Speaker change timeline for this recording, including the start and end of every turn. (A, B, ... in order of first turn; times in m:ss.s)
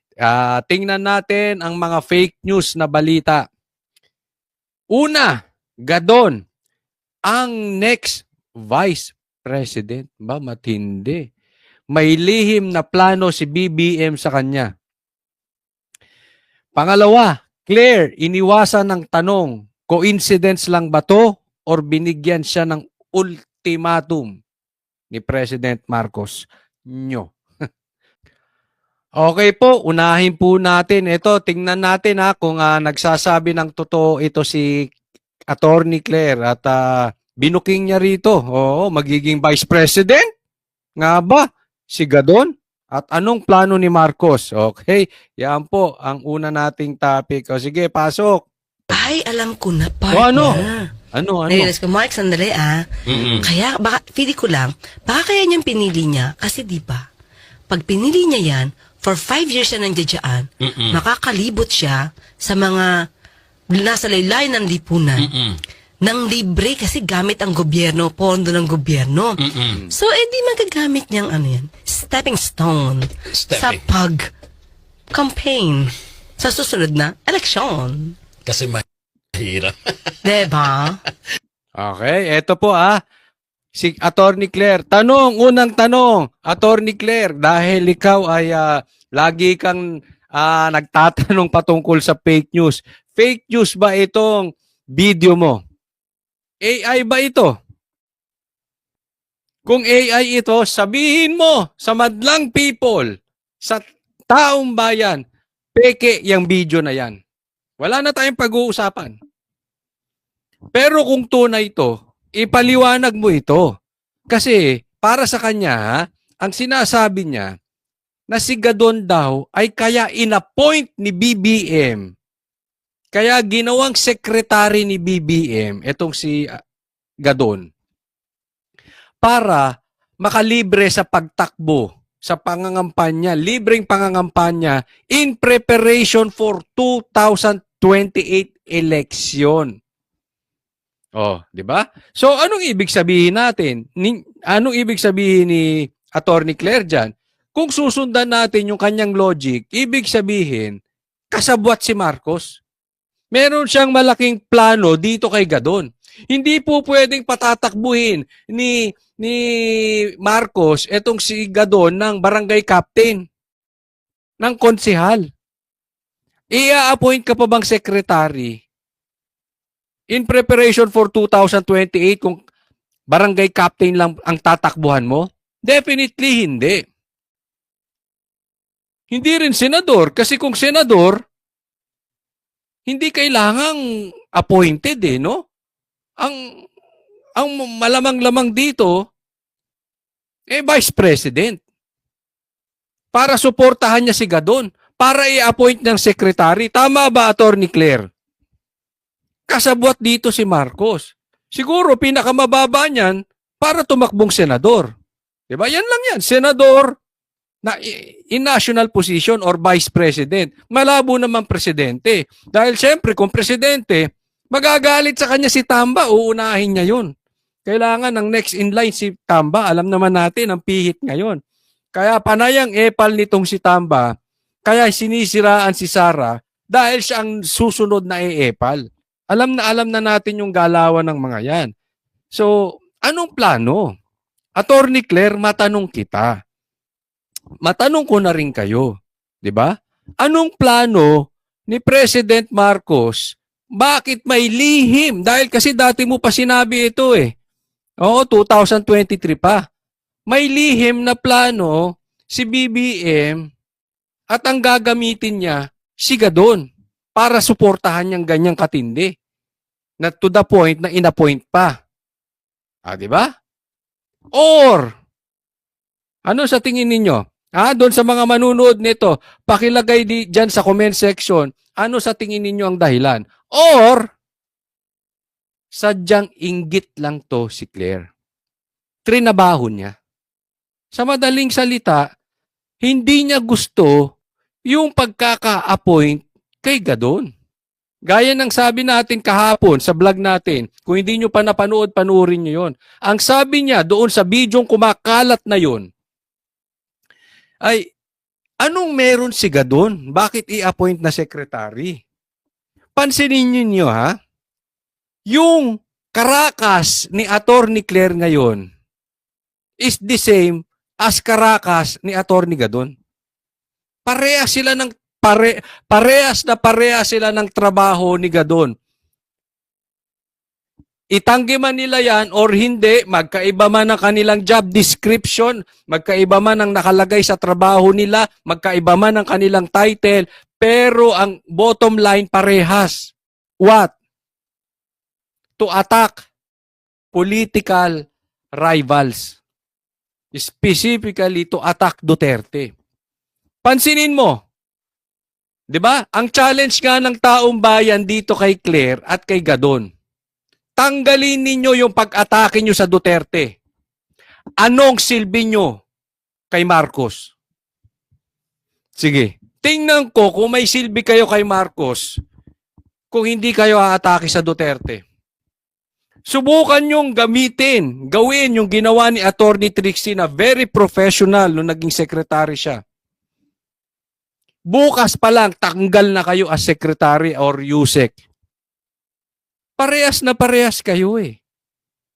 0:00.2-0:03.4 A
0:04.9-0:05.3 A
0:05.9-0:06.4 A
0:07.3-0:11.2 A
0:11.9-0:14.7 A
0:16.8-0:24.3 A
0:25.1-0:27.3 A
0:29.2-0:34.9 A
0:35.5-0:40.3 A
0:41.0-0:48.5 A
0:48.9-0:50.9 B
0:50.1-0:51.7 A
0:51.5-0:57.1 B
0:53.1-0:53.5 C
0:53.1-0:53.5 A
0:57.7-1:02.9 B
1:00.7-1:01.0 C
1:03.7-1:05.4 B
1:05.2-1:05.6 C
1:06.0-1:14.3 B
1:09.4-1:09.8 C
1:13.4-1:13.8 C
1:15.1-1:18.2 B
1:18.5-1:20.2 C
1:20.2-1:21.0 B
1:21.8-1:23.0 A
1:23.8-1:29.8 A
1:30.4-1:35.6 A
1:36.6-1:37.6 A
1:39.7-1:43.1 A
1:43.6-1:45.2 A
1:45.8-1:47.2 A
1:47.8-1:49.2 A
1:50.8-1:53.7 A
1:54.3-1:57.5 A
1:58.3-2:02.0 A
2:03.1-2:06.5 A
2:07.2-2:07.7 A
2:09.2-2:09.7 A
2:10.2-2:19.7 A
2:21.2-2:30.8 A
2:31.3-2:32.6 A
2:33.3-2:43.2 A
2:44.4-2:45.2 A
2:46.5-2:48.6 A
2:50.1-2:52.4 A
2:53.1-2:56.8 A
2:59.1-3:01.2 A
3:02.9-3:03.8 A
3:04.4-3:05.4 A
3:07.4-3:09.0 A
3:10.5-3:11.6 A
3:13.1-3:18.1 A
3:19.5-3:24.9 A
3:25.5-3:26.9 A
3:27.6-3:37.1 A
3:37.7-3:41.4 A
3:42.0-3:44.1 A
3:44.7-3:51.7 A
3:52.3-3:53.9 A
3:54.6-3:56.3 A
3:57.6-3:58.9 A
3:59.4-4:07.3 A
4:08.0-4:09.6 A
4:10.3-4:13.4 A
4:14.3-4:16.6 A
4:17.2-4:19.1 A
4:20.0-4:21.7 A
4:22.9-4:23.3 A
4:24.4-4:24.9 A
4:26.3-4:34.0 A
4:35.7-4:38.1 A
4:39.1-4:39.9 A
4:41.0-4:42.0 A
4:42.8-4:44.0 A
4:44.7-4:47.3 A
4:48.1-4:55.9 A
4:58.6-5:02.0 A
5:03.0-5:04.1 A
5:05.3-5:08.6 A
5:09.8-5:12.9 A
5:14.1-5:18.7 A
5:21.1-5:33.9 A
5:35.6-5:36.2 A
5:37.1-5:38.0 A
5:38.6-5:39.4 A
5:40.4-5:42.7 A
5:43.6-5:44.4 A
5:45.7-5:49.9 A
5:50.8-5:53.6 A
5:54.6-5:55.8 A
5:56.5-5:57.3 A
5:59.0-6:02.1 A
6:03.1-6:05.0 A
6:06.3-6:12.8 A
6:14.7-6:18.2 A
6:19.8-6:21.4 A